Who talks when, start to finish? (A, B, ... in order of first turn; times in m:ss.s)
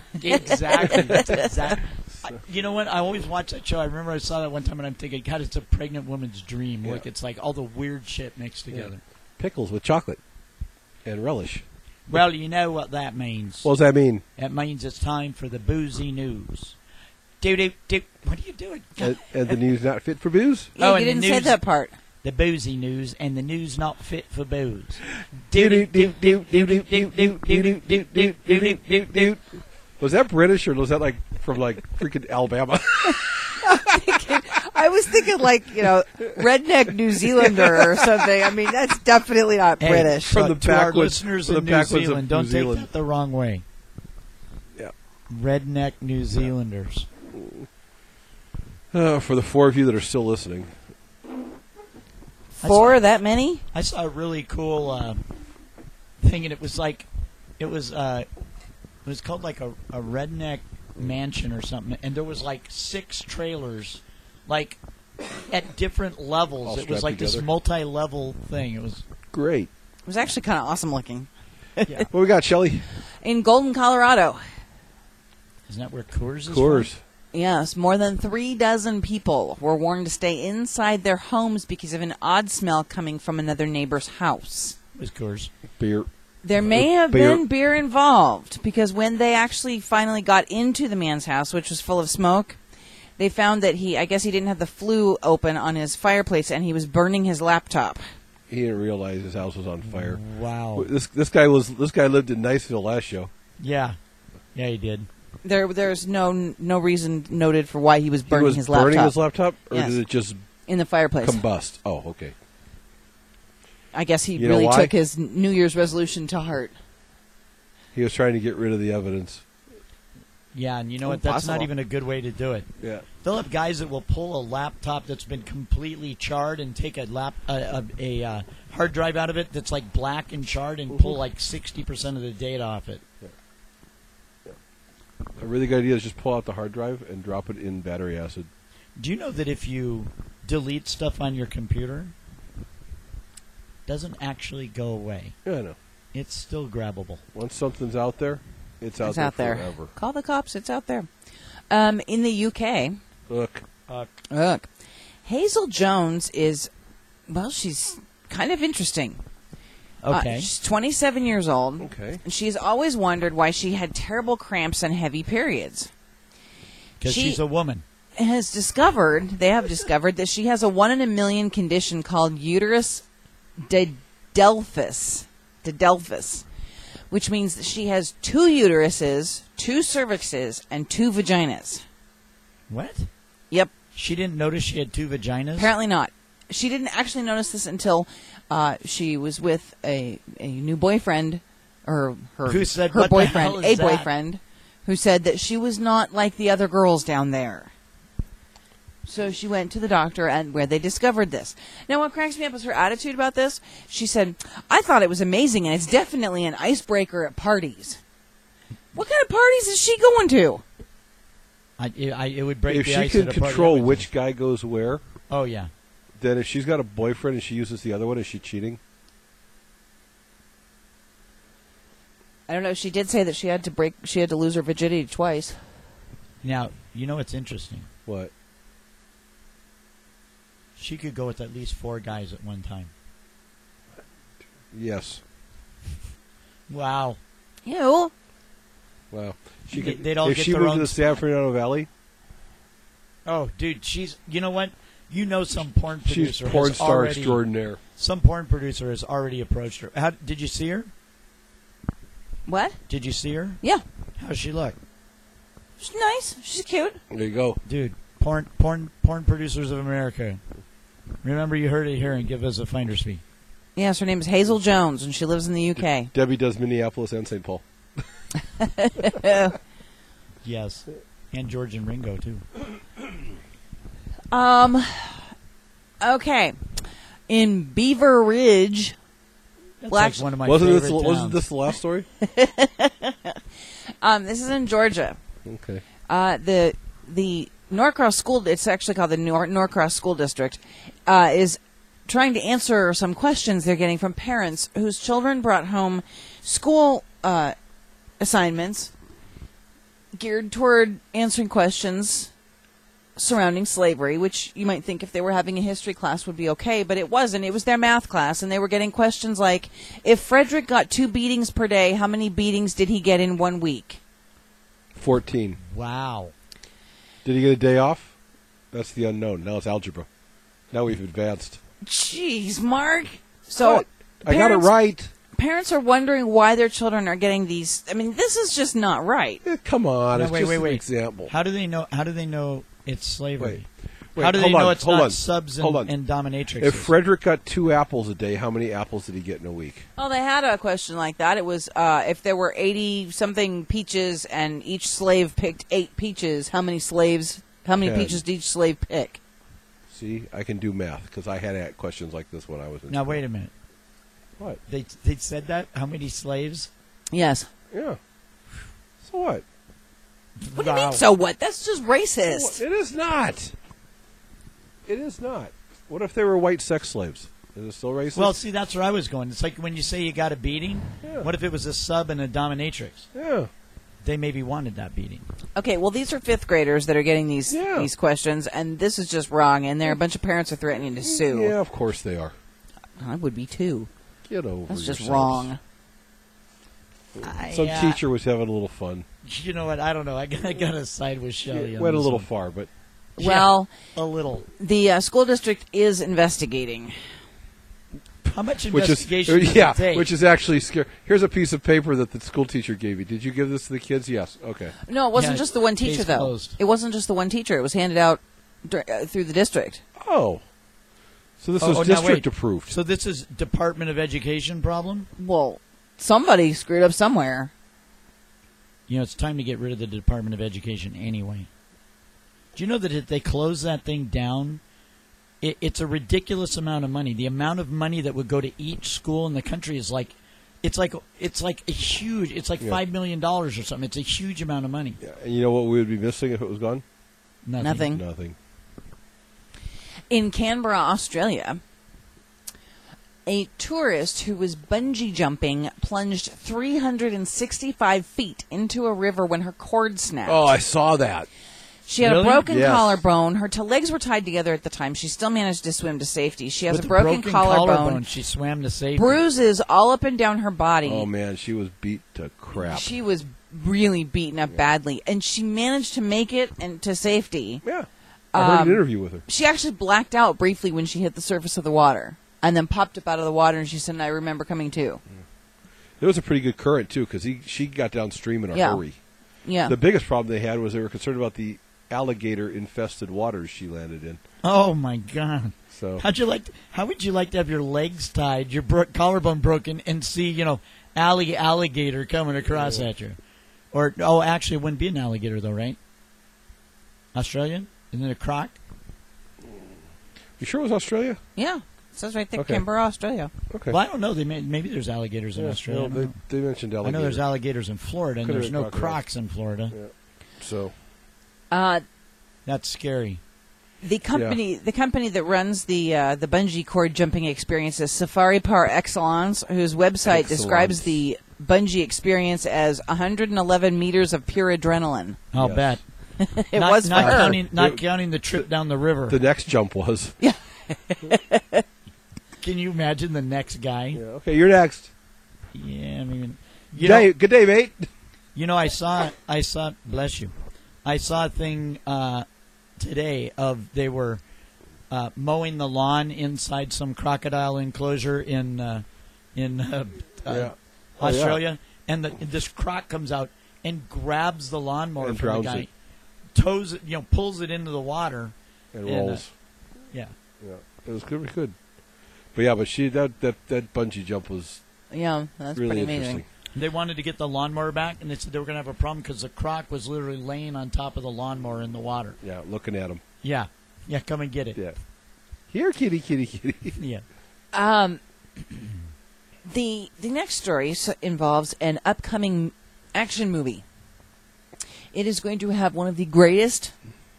0:00.2-0:09.0 A
0:00.3-0:01.5 B
0:00.8-0:01.4 C
0:08.7-0:10.2 C
0:11.0-0:11.6 C
0:12.1-0:13.7 A
0:13.6-0:14.2 C
0:14.4-0:16.8 A
0:17.4-0:19.1 A
0:19.0-0:20.7 C
0:20.8-0:21.6 A
0:20.8-0:22.0 B
0:22.2-0:29.3 A
0:25.5-0:29.4 C
0:30.0-0:33.8 C
0:33.6-0:40.4 B
0:37.2-0:38.3 C
0:39.8-0:43.6 A
0:40.3-0:42.9 C
0:45.3-0:47.1 A
0:47.3-0:47.7 C
0:48.9-0:50.7 C
0:52.6-0:53.6 B
0:52.6-0:53.0 A
0:53.7-0:55.2 A
0:56.2-0:57.1 A
0:57.6-0:58.3 A
0:59.0-1:04.8 A
1:05.5-1:09.0 A
1:06.6-1:07.5 C
1:09.3-1:09.7 C
1:10.1-1:12.1 B
1:12.1-1:12.9 C
1:13.2-1:14.4 B
1:15.7-1:16.9 A
1:16.5-1:17.0 C
1:17.3-1:24.8 B
1:25.0-1:25.5 A
1:25.8-1:26.1 C
1:26.4-1:32.6 B
1:26.7-1:27.4 C
1:33.2-1:38.0 B
1:38.5-1:40.2 C
1:39.9-1:40.9 A
1:40.8-1:43.3 C
1:43.6-1:44.0 A
1:44.5-1:45.1 A
1:45.4-1:49.2 B
1:48.3-1:50.4 C
1:49.7-1:50.0 B
1:50.7-1:51.4 B
1:51.2-1:52.4 C
1:53.9-1:56.7 B
1:54.4-1:54.9 C
1:57.9-1:59.4 C
2:00.5-2:02.7 A
2:01.0-2:01.7 C
2:02.8-2:03.1 C
2:03.2-2:13.0 A
2:10.9-2:11.2 C
2:15.4-2:18.5 C
2:19.0-2:22.1 A
2:23.9-2:25.4 A
2:25.4-2:25.8 C
2:26.1-2:27.2 A
2:27.3-2:29.9 C
2:29.0-2:31.1 B
2:31.7-2:33.0 B
2:33.3-2:33.6 C
2:34.3-2:34.6 B
2:35.2-2:36.7 B
2:37.3-2:39.2 B
2:40.0-2:40.5 A
2:40.1-2:45.9 B
2:41.8-2:42.2 C
2:47.0-2:47.8 A
2:47.0-2:47.4 B
2:48.2-2:53.0 B
2:53.6-2:56.4 B
2:57.1-3:01.8 B
3:02.7-3:03.1 A
3:04.0-3:05.7 A
3:05.6-3:17.7 B
3:12.5-3:14.1 A
3:19.1-3:28.0 B
3:29.0-3:30.6 B
3:31.8-3:34.1 A
3:32.7-3:35.0 C
3:35.3-3:35.7 A
3:36.2-3:38.8 C
3:42.5-3:45.6 B
3:46.4-3:47.9 A
3:48.1-3:48.3 C
3:50.8-3:52.9 A
3:54.7-3:55.2 C
3:56.7-3:57.2 A
3:57.7-3:58.1 B
3:59.1-4:01.9 C
3:59.7-4:01.0 A
4:03.3-4:07.4 A
4:06.1-4:07.8 C
4:08.0-4:10.9 A
4:12.5-4:12.8 B
4:12.9-4:13.6 A
4:14.2-4:14.8 A
4:15.8-4:17.0 B
4:17.1-4:17.6 C
4:17.7-4:20.4 A
4:21.2-4:23.2 A
4:23.8-4:26.1 B
4:25.8-4:28.0 C
4:28.6-4:29.6 B
4:30.4-4:32.4 A
4:34.3-4:35.2 B
4:36.0-4:39.0 B
4:39.8-4:41.4 A
4:39.9-4:40.3 B
4:40.4-4:42.1 C
4:42.2-4:43.4 B
4:44.0-4:45.2 B
4:45.4-4:45.8 C
4:46.1-4:57.6 B
4:58.2-4:58.9 B
5:00.2-5:02.3 B
5:03.2-5:14.0 B
5:15.0-5:15.6 C
5:15.6-5:16.3 A
5:17.2-5:18.1 C
5:18.7-5:20.1 C
5:20.7-5:21.6 C
5:21.8-5:24.8 B
5:23.6-5:25.1 C
5:25.4-5:29.4 B
5:29.4-5:31.3 C
5:30.1-5:33.7 A
5:34.2-5:35.9 C
5:34.2-5:36.9 A
5:36.6-5:39.9 C
5:40.0-5:49.2 B
5:47.8-5:48.2 C
5:49.9-5:53.2 C
5:52.9-5:53.5 A
5:54.7-5:56.7 A
5:57.1-5:57.5 B
5:57.7-5:58.0 C
5:59.0-5:59.4 C
6:00.4-6:01.0 A
6:00.6-6:02.6 B
6:02.3-6:03.5 C
6:04.9-6:08.4 C
6:08.2-6:13.1 A
6:13.1-6:13.5 C
6:14.0-6:15.3 A
6:15.6-6:21.6 B
6:17.5-6:17.9 C
6:21.0-6:22.4 C
6:23.0-6:23.9 B
6:24.3-6:25.5 C
6:24.7-6:25.6 B
6:27.2-6:29.1 C
6:27.2-6:28.0 A
6:29.2-6:32.3 A
6:31.5-6:32.7 C
6:33.2-6:33.7 B
6:33.2-6:34.5 A
6:34.6-6:36.9 B
6:38.2-6:40.1 A
6:38.7-6:44.8 C
6:44.9-6:49.8 B
6:45.2-6:46.6 A
6:50.0-6:50.4 C
6:51.4-6:52.7 C
6:51.6-6:55.1 A
6:55.2-6:57.5 B
6:58.9-7:01.5 A
7:02.6-7:04.6 A
7:05.4-7:15.0 A
7:15.0-7:16.8 C
7:17.5-7:17.9 A
7:17.6-7:18.0 B
7:17.9-7:18.4 C
7:20.1-7:21.6 B
7:23.3-7:30.5 B
7:30.3-7:31.3 C
7:31.9-7:38.0 B
7:32.0-7:32.4 A
7:32.5-7:33.0 C
7:36.7-7:39.2 A
7:39.0-7:41.1 B
7:40.8-7:42.9 C
7:42.6-7:47.6 B
7:47.6-7:49.2 C
7:48.3-7:55.0 B
7:56.0-7:59.0 C
7:58.5-7:58.8 B
7:59.5-7:59.8 B
7:59.7-8:04.2 C
8:04.4-8:13.2 A
8:05.7-8:06.0 C
8:12.6-8:12.8 C
8:13.7-8:15.8 A
8:17.1-8:18.6 A
8:20.4-8:21.2 C
8:21.4-8:23.3 B
8:22.4-8:22.6 C
8:23.5-8:23.8 C
8:23.7-8:26.2 A
8:25.4-8:27.3 C
8:26.8-8:29.7 A
8:28.2-8:29.0 C
8:29.7-8:30.7 C
8:31.5-8:31.8 B
8:32.5-8:33.2 A
8:33.8-8:45.2 B
8:34.1-8:34.4 C
8:40.0-8:41.0 C
8:45.3-8:45.8 A
8:45.4-8:45.7 C
8:46.2-8:47.4 B
8:46.5-8:49.2 A
8:46.9-8:48.5 C
8:49.1-8:50.2 C
8:50.2-8:51.6 B
8:52.4-8:54.0 A
8:54.0-8:54.9 C
8:55.5-8:57.1 A
8:56.8-8:57.9 C
8:58.4-9:00.3 A
9:00.8-9:02.3 A
9:02.8-9:04.2 A
9:04.9-9:15.7 A
9:10.3-9:11.4 C
9:15.0-9:15.7 C
9:16.3-9:18.3 A
9:18.7-9:19.3 C
9:18.8-9:19.2 A
9:20.4-9:21.6 C
9:22.4-9:24.6 C
9:24.9-9:26.2 B
9:25.6-9:26.3 C
9:26.5-9:32.2 A
9:32.2-9:33.0 C
9:33.2-9:34.6 A
9:35.5-9:36.8 C
9:36.8-9:37.0 A
9:37.5-9:38.0 B
9:39.5-9:43.6 B
9:44.9-9:46.7 B